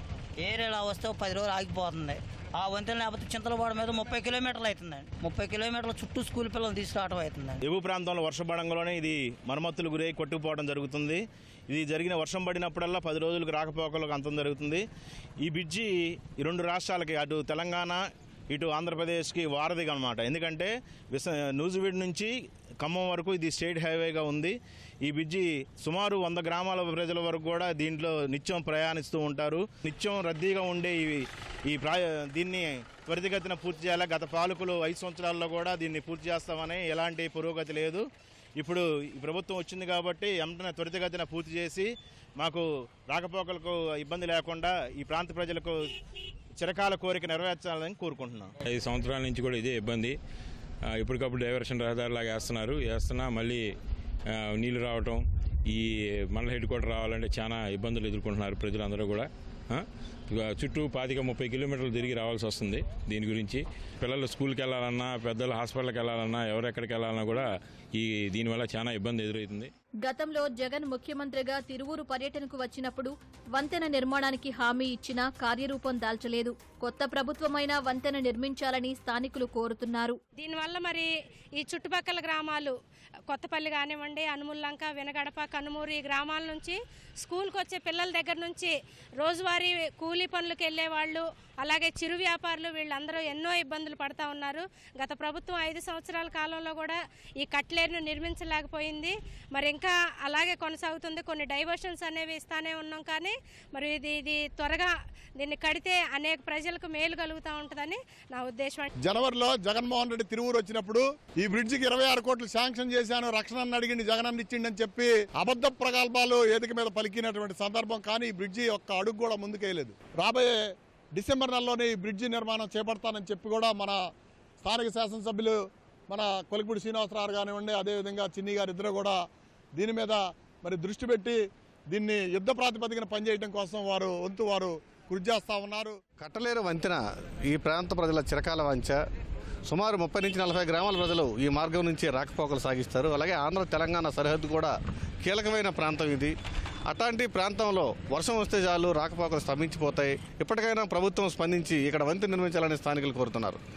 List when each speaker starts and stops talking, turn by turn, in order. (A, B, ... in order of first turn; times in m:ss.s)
0:00.4-0:07.6 A
0:07.6-0:14.8 B
0:15.4-0:18.0 B
0:18.5-0:22.3 B
0:22.8-0:38.0 B
0:38.6-0:45.8 B
0:46.6-0:48.5 B
0:48.6-0:50.1 C
0:51.0-0:53.6 C
0:54.6-0:55.8 C
0:56.3-1:09.7 C
1:10.0-1:20.2 D
1:20.4-1:22.7 E
1:23.3-1:48.9 E
1:49.0-2:00.5 F
2:01.2-2:04.0 F
2:04.6-2:05.6 F
2:06.1-2:09.1 F
2:09.8-2:11.4 F
2:11.9-2:15.9 F
2:16.2-2:19.0 G
2:19.7-2:24.7 G
2:25.2-2:26.3 G
2:26.9-2:33.6 G